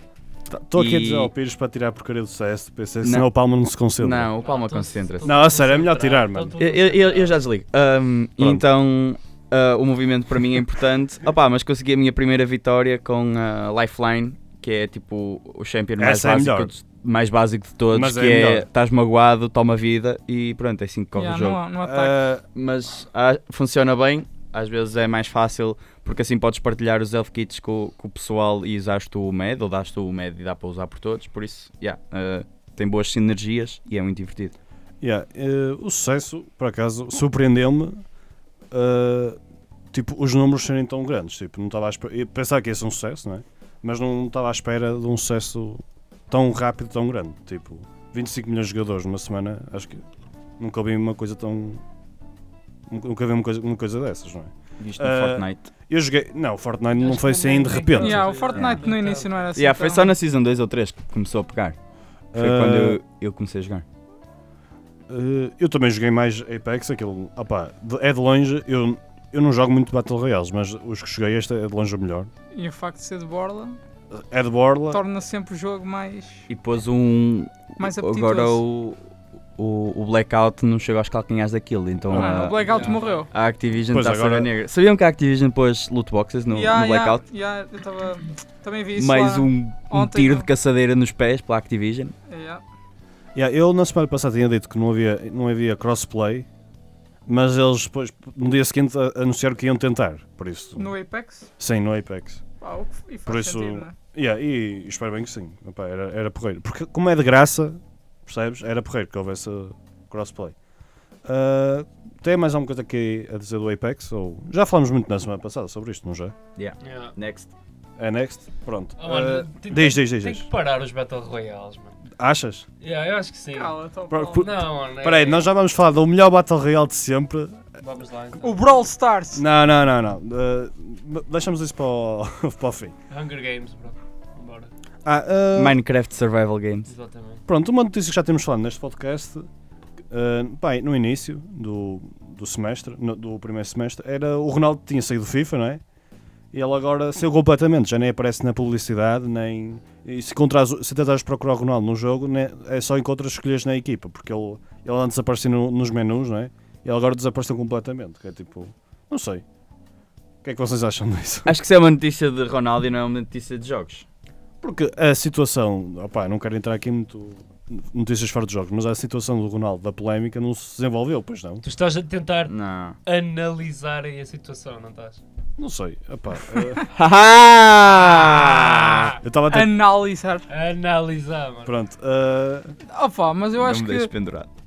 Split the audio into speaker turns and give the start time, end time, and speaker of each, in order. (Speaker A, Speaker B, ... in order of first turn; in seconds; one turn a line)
Speaker A: 0.5-4.3
Speaker B: 0.7-1.3
Speaker B: 4.0-5.3
Speaker C: 4.4-7.4
Speaker A: 5.2-6.5
Speaker B: 6.6-21.6
Speaker A: 8.4-8.6
Speaker A: 16.0-16.7
Speaker A: 17.9-18.7
Speaker D: 21.2-22.2
Speaker A: 21.8-22.4
Speaker B: 22.6-34.6
Speaker A: 35.0-38.0
Speaker A: 38.7-39.4
Speaker A: 39.9-50.0
Speaker A: 50.6-51.8
Speaker A: 52.9-58.8
Speaker B: 54.8-55.7
Speaker C: 56.9-59.4
Speaker D: 58.0-60.1
Speaker B: 59.5-61.8
Speaker A: 62.3-63.0
Speaker B: 62.4-63.9
Speaker A: 65.1-72.3
Speaker D: 72.5-73.8
Speaker A: 74.1-75.0
Speaker D: 74.9-76.5
Speaker B: 76.5-79.0
Speaker D: 77.8-78.6
Speaker B: 79.6-87.2
Speaker A: 82.1-82.5
Speaker D: 82.1-83.3
Speaker C: 82.5-83.2
Speaker A: 83.9-84.5
Speaker D: 86.5-90.5
Speaker B: 89.0-92.1
Speaker D: 92.3-92.6
Speaker A: 93.3-96.5
Speaker A: 97.3-100.9
Speaker D: 100.8-101.5
Speaker A: 101.6-102.4
Speaker D: 102.6-103.9
Speaker A: 103.3-110.5
Speaker A: 111.2-116.3
Speaker B: 116.6-117.5
Speaker C: 116.8-117.1
Speaker A: 118.0-120.5
Speaker C: 119.0-122.0
Speaker A: 122.2-122.7
Speaker C: 122.8-123.8
Speaker D: 123.5-124.4
Speaker A: 124.1-127.6
Speaker C: 124.3-125.5
Speaker C: 127.8-128.6
Speaker D: 128.4-129.4
Speaker A: 129.3-132.9
Speaker C: 133.1-134.7
Speaker A: 135.1-135.8
Speaker B: 135.6-136.9
Speaker C: 136.9-137.4
Speaker A: 137.5-139.5
Speaker A: 140.1-145.8
Speaker A: 146.5-159.4
Speaker A: 160.4-161.5
Speaker B: 161.4-164.1
Speaker A: 164.6-171.6
Speaker C: 171.6-172.5
Speaker B: 172.5-173.0
Speaker C: 173.1-175.2
Speaker A: 175.6-176.9
Speaker B: 176.8-179.2
Speaker A: 179.2-179.8
Speaker D: 179.5-180.5
Speaker C: 180.5-181.7
Speaker A: 181.7-182.7
Speaker D: 182.9-184.1
Speaker B: 183.6-184.5